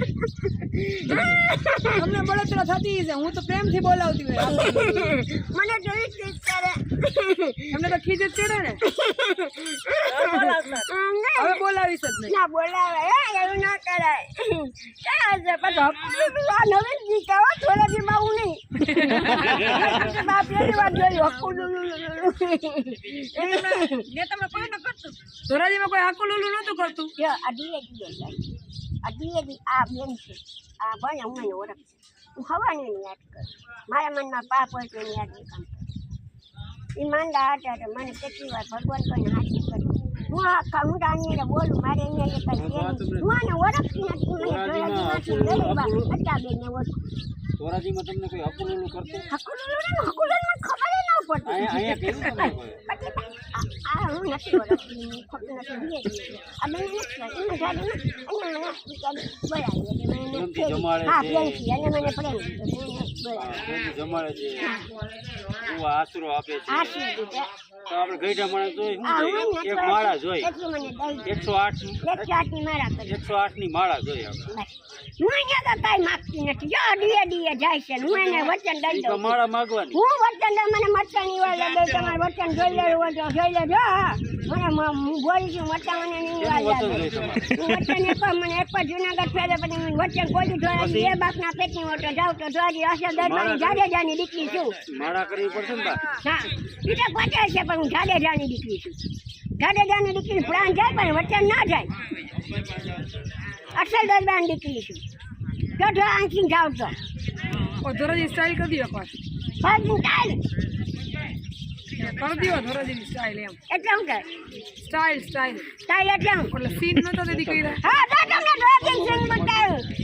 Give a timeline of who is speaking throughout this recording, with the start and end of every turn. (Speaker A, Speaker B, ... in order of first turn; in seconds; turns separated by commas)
Speaker A: 0.4-2.1, Speaker B: 1.1-1.3, Speaker B: 2.0-5.2, Speaker A: 4.4-7.8, Speaker B: 7.7-8.8, Speaker A: 8.8-11.7, Speaker B: 10.3-10.7, Speaker B: 11.4-12.3, Speaker A: 12.2-24.1, Speaker B: 18.9-19.5, Speaker C: 19.5-20.0, Speaker B: 23.4-27.1, Speaker A: 27.2-28.5, Speaker A: 29.0-35.9, Speaker A: 37.0-46.9, Speaker C: 42.5-43.3, Speaker C: 44.4-46.1, Speaker C: 47.6-49.2, Speaker A: 49.3-63.5, Speaker C: 51.5-52.8, Speaker C: 60.3-61.7, Speaker C: 63.4-64.7, Speaker A: 64.6-64.9, Speaker C: 65.6-67.0, Speaker A: 66.7-67.5, Speaker C: 67.9-70.5, Speaker A: 69.0-71.4, Speaker C: 71.2-72.3, Speaker A: 72.0-73.2, Speaker C: 73.1-74.5, Speaker A: 74.5-79.4, Speaker C: 78.9-80.0, Speaker A: 79.9-94.8, Speaker C: 86.4-87.5, Speaker C: 90.7-91.1, Speaker C: 93.2-93.8, Speaker C: 94.9-96.0, Speaker A: 96.1-99.0, Speaker A: 99.6-101.9, Speaker A: 103.7-105.0, Speaker A: 105.8-106.9, Speaker B: 107.8-109.1, Speaker A: 109.6-110.4, Speaker B: 112.0-113.6, Speaker A: 113.7-114.2, Speaker B: 114.8-115.7, Speaker A: 115.8-116.5, Speaker B: 116.5-117.8, Speaker C: 117.3-118.0, Speaker A: 117.8-119.9, Speaker C: 118.8-119.7